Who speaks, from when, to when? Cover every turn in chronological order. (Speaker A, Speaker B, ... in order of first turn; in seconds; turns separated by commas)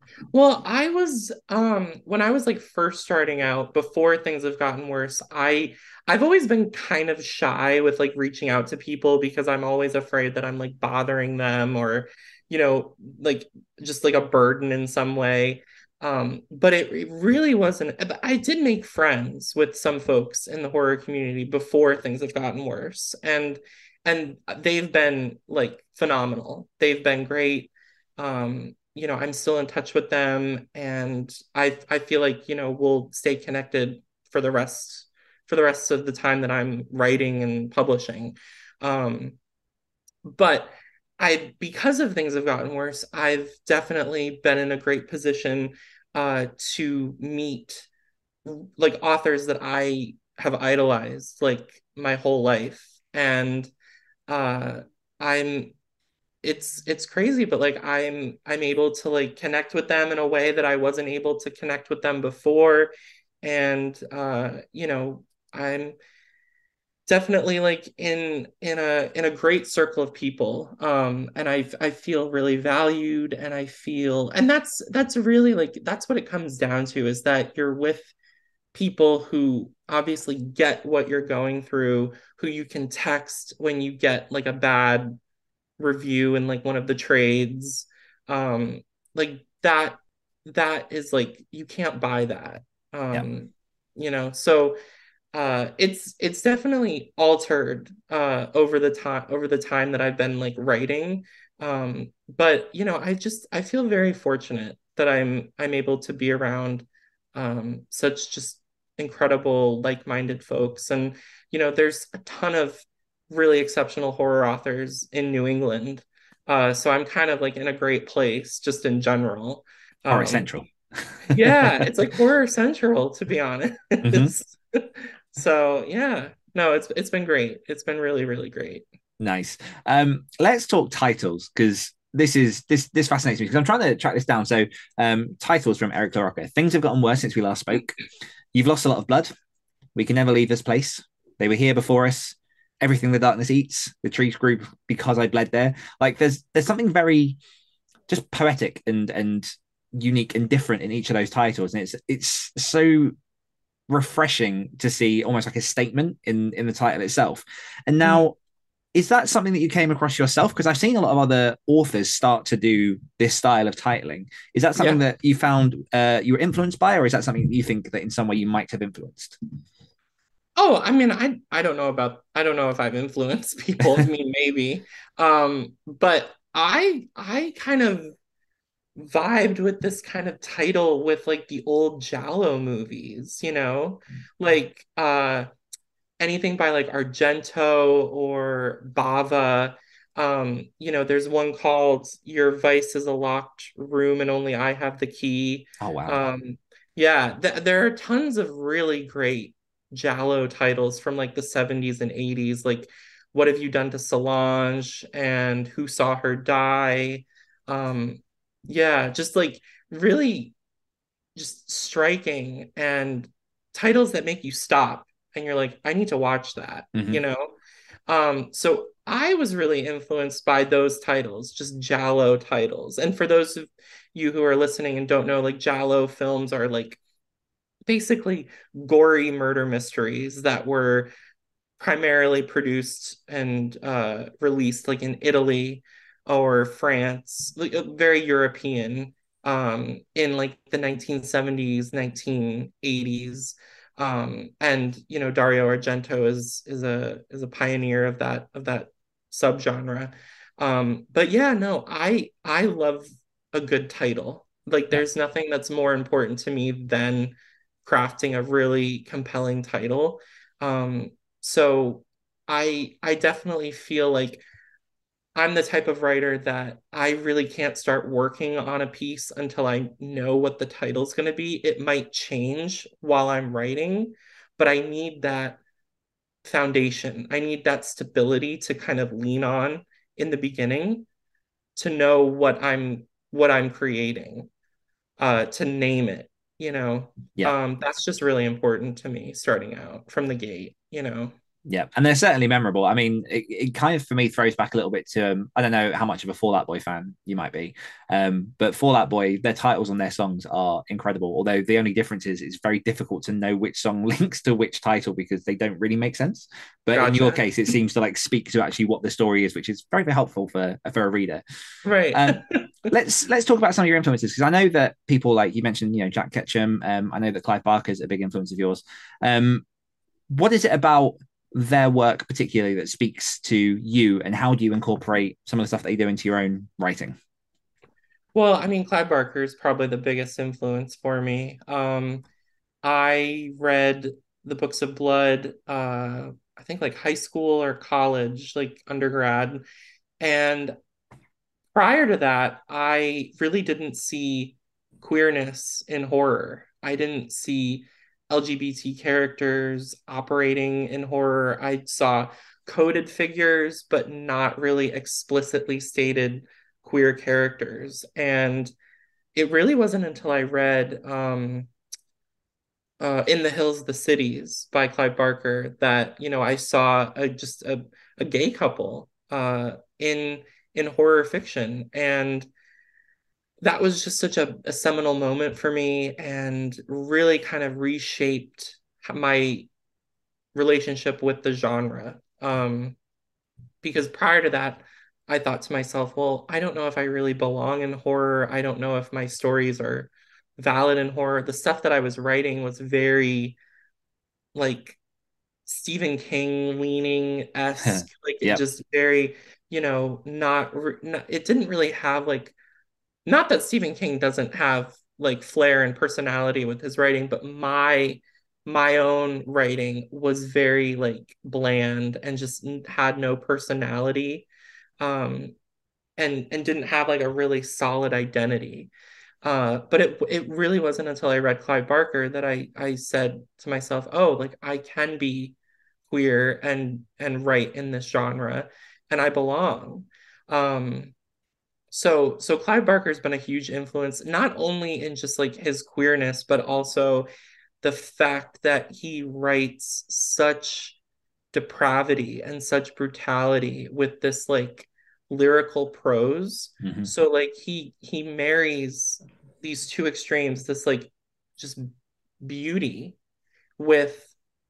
Speaker A: 0.3-39.4, Speaker A: 40.2-47.9, Speaker A: 48.4-53.7, Speaker A: 54.3-55.7, Speaker A: 56.4-66.0, Speaker A: 67.1-78.1, Speaker A: 78.7-85.2, Speaker A: 85.8-94.8, Speaker A: 95.3-120.5, Speaker B: 120.1-121.9, Speaker A: 121.3-128.8, Speaker B: 124.0-124.3, Speaker B: 129.2-138.0, Speaker B: 138.5-139.3, Speaker B: 139.9-147.4, Speaker B: 148.1-153.1, Speaker B: 153.9-158.3, Speaker A: 158.0-158.3, Speaker B: 158.9-169.4, Speaker A: 170.6-178.1, Speaker A: 178.9-185.5, Speaker A: 186.2-210.5, Speaker B: 195.8-196.3, Speaker A: 211.3-217.5, Speaker B: 216.9-217.2, Speaker A: 218.1-227.0, Speaker A: 227.9-231.1, Speaker A: 231.8-264.4, Speaker A: 265.4-275.6, Speaker A: 276.4-281.1, Speaker A: 281.8-284.5, Speaker A: 285.2-291.3, Speaker B: 291.7-311.4, Speaker A: 306.9-307.4, Speaker A: 311.8-312.6, Speaker B: 312.1-319.6, Speaker B: 320.3-327.1, Speaker A: 328.3-332.2, Speaker A: 332.8-339.6, Speaker A: 340.2-340.7, Speaker A: 341.7-358.7, Speaker A: 359.3-361.7, Speaker A: 363.0-372.5, Speaker A: 373.6-379.7, Speaker A: 380.5-383.0, Speaker A: 383.8-393.6, Speaker A: 394.5-395.0, Speaker A: 395.6-402.6, Speaker B: 397.8-398.6, Speaker A: 403.2-414.5, Speaker A: 415.0-415.5, Speaker A: 416.2-418.9, Speaker A: 419.4-425.6, Speaker A: 426.1-431.1, Speaker A: 431.9-437.3, Speaker A: 437.8-441.0, Speaker A: 441.5-451.9, Speaker B: 446.8-447.1, Speaker A: 452.4-453.2, Speaker A: 453.8-454.3